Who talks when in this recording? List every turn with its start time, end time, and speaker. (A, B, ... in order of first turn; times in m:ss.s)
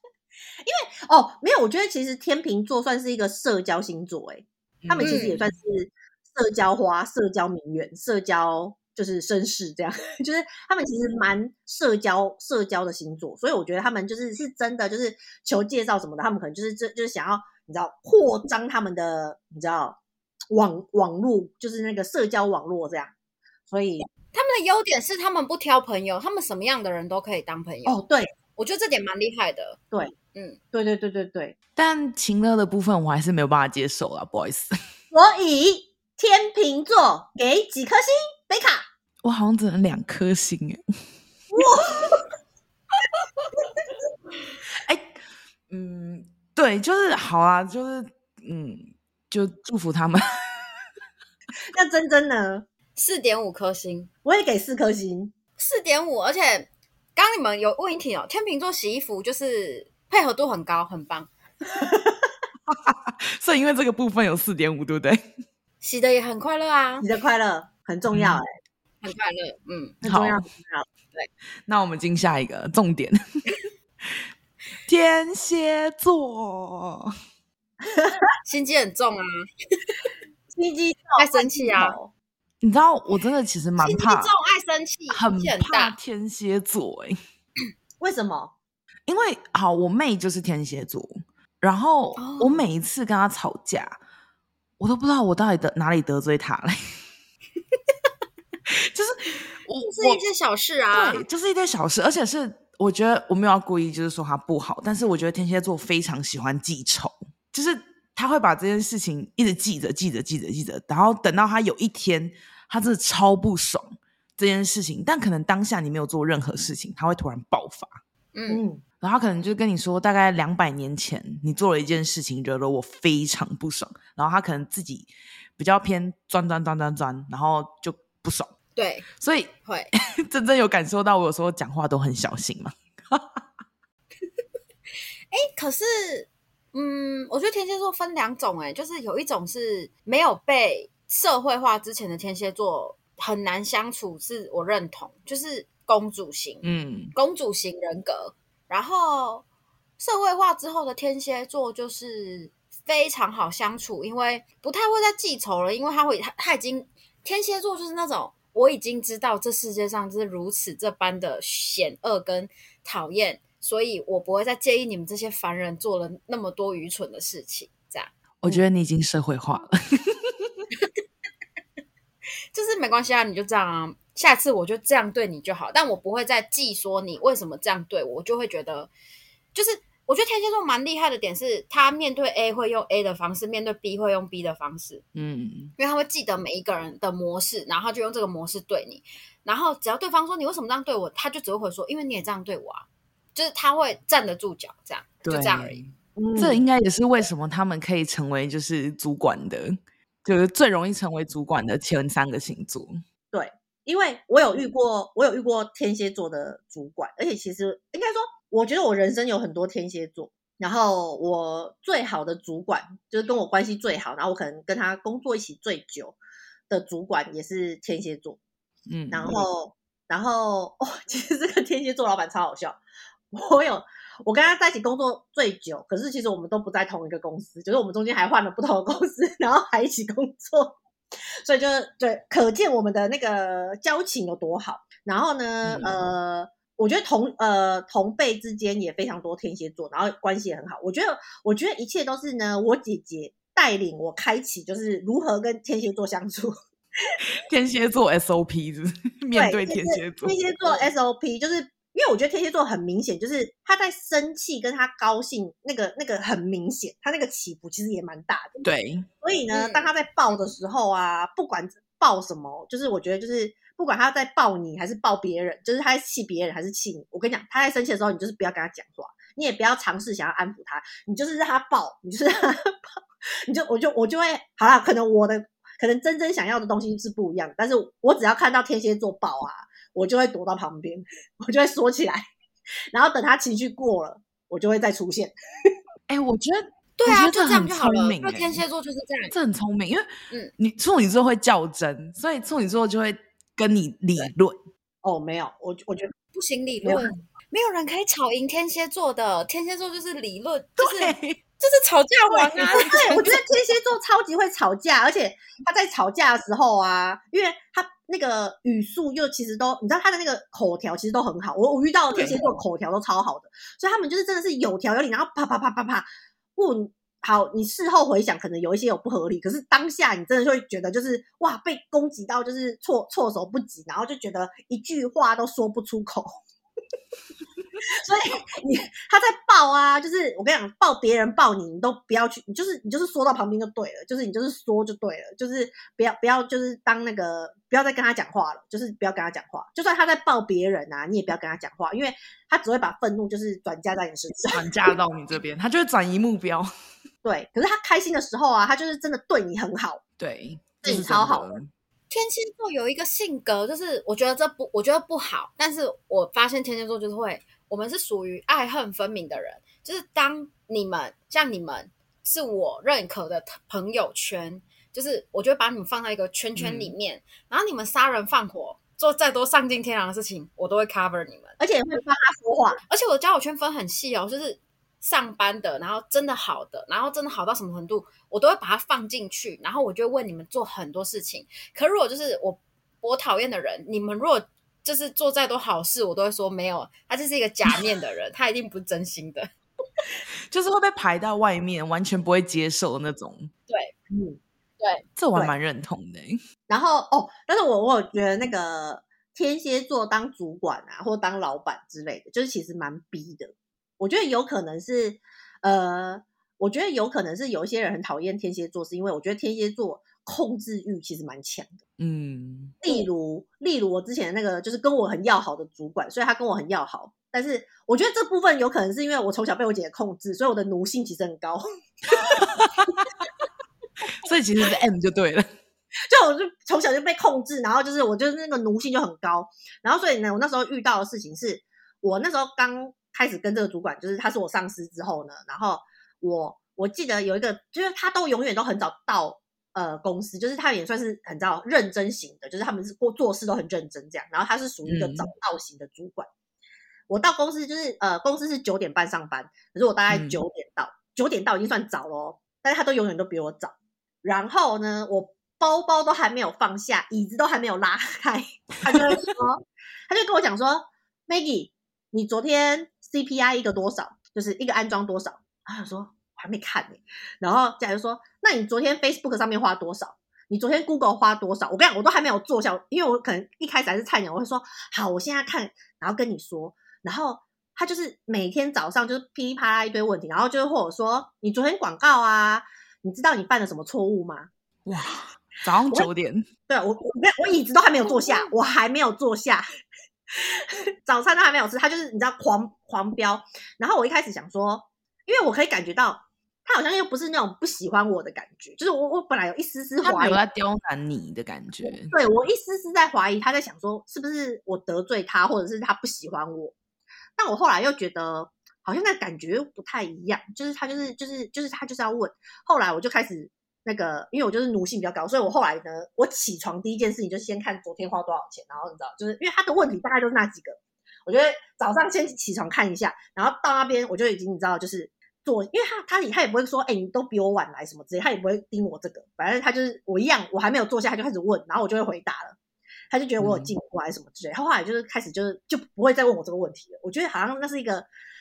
0:00.6-0:20.0 A
0:04.8-0:05.5 B
0:05.0-0:05.4 C
0:20.5-0:23.1 A
0:23.7-0:24.0 A
0:24.3-0:28.0 C
0:27.8-0:28.3 A
0:28.6-0:29.8 C
0:30.3-0:30.6 C
0:30.7-0:31.5 A
0:31.8-0:34.7 B
0:35.1-0:38.8 A
0:39.2-0:40.8 B
0:41.5-0:42.2 A
0:44.8-0:45.2 B
0:45.7-0:50.7 B
0:51.7-0:52.6 A
0:53.0-0:54.1 C
0:54.2-0:55.3 A
0:55.6-1:01.3 C
1:01.7-1:02.3 A
1:02.7-1:05.2 B
1:05.8-1:07.0 C
1:07.0-1:08.5 A
1:08.1-1:08.4 B
1:09.0-1:10.0 C
1:10.0-1:10.4 B
1:10.0-1:10.9 A
1:11.7-1:13.5 B
1:14.0-1:14.3 B
1:14.8-1:17.1 B
1:17.8-1:18.2 A
1:18.4-1:19.4 C
1:20.5-1:22.1 A
1:21.2-1:22.0 C
1:22.6-1:24.3 B
1:23.8-1:26.0 C
1:25.1-1:27.2 B
1:28.0-1:28.5 A
1:29.1-1:34.0 B
1:32.2-1:32.6 C
1:34.8-1:36.8 B
1:38.7-1:40.2 B
1:39.8-1:41.2 C
1:40.9-1:58.0 B
1:58.3-1:58.6 C
1:58.5-1:58.8 A
1:59.0-2:08.5 B
2:08.8-2:09.1 C
2:09.1-2:13.4 B
2:09.6-2:09.9 C
2:15.3-2:29.4 C
2:26.6-2:27.1 B
2:30.0-2:48.1 C
2:48.4-2:50.6 B
2:52.5-2:58.9 C
2:59.5-3:05.0 C
3:05.1-3:05.7 B
3:05.8-3:15.8 C
3:15.2-3:23.0 B
3:16.2-3:16.6 A
3:23.3-3:36.2 A
3:36.7-3:38.4 A
3:38.9-3:39.4 B
3:39.1-3:42.8 A
3:43.3-3:50.8 A
3:51.4-4:06.5 A
3:55.6-3:56.0 B
4:07.2-4:10.4 B
4:09.3-4:18.5 A
4:18.6-4:19.1 B
4:19.2-4:32.8 A
4:19.5-4:19.9 C
4:33.5-4:42.2 A
4:42.9-4:45.3 A
4:46.1-4:48.6 B
4:47.0-4:49.3 C
4:49.3-4:54.6 B
4:55.0-4:56.1 A
4:56.3-5:03.4 C
4:56.8-4:57.1 A
5:00.8-5:01.4 B
5:02.3-5:26.4 A
5:02.7-5:03.3 B
5:12.1-5:12.4 B
5:27.9-5:45.0 A
5:44.5-5:46.7 B
5:47.2-5:50.0 A
5:50.2-5:51.7 B
5:50.8-5:51.5 A
5:52.1-6:11.6 C
6:06.6-6:07.0 B
6:11.6-6:12.8 A
6:12.9-6:30.0 C
6:30.5-6:33.5 B
6:34.1-6:34.4 A
6:35.2-6:36.4 B
6:36.7-6:51.8 A
6:52.0-6:52.7 B
6:52.8-7:02.9 A
7:02.3-7:03.0 B
7:04.2-7:05.5 B
7:06.1-7:26.3 A
7:24.8-7:25.3 B
7:27.1-8:04.5 A
7:30.1-7:30.4 B
8:04.8-8:06.4 B
8:06.7-8:09.6 A
8:08.0-8:08.5 C
8:10.4-8:20.4 A
8:20.0-8:22.1 B
8:21.8-8:26.7 A
8:27.4-8:52.6 A
8:53.1-8:58.1 A
8:53.4-8:53.7 B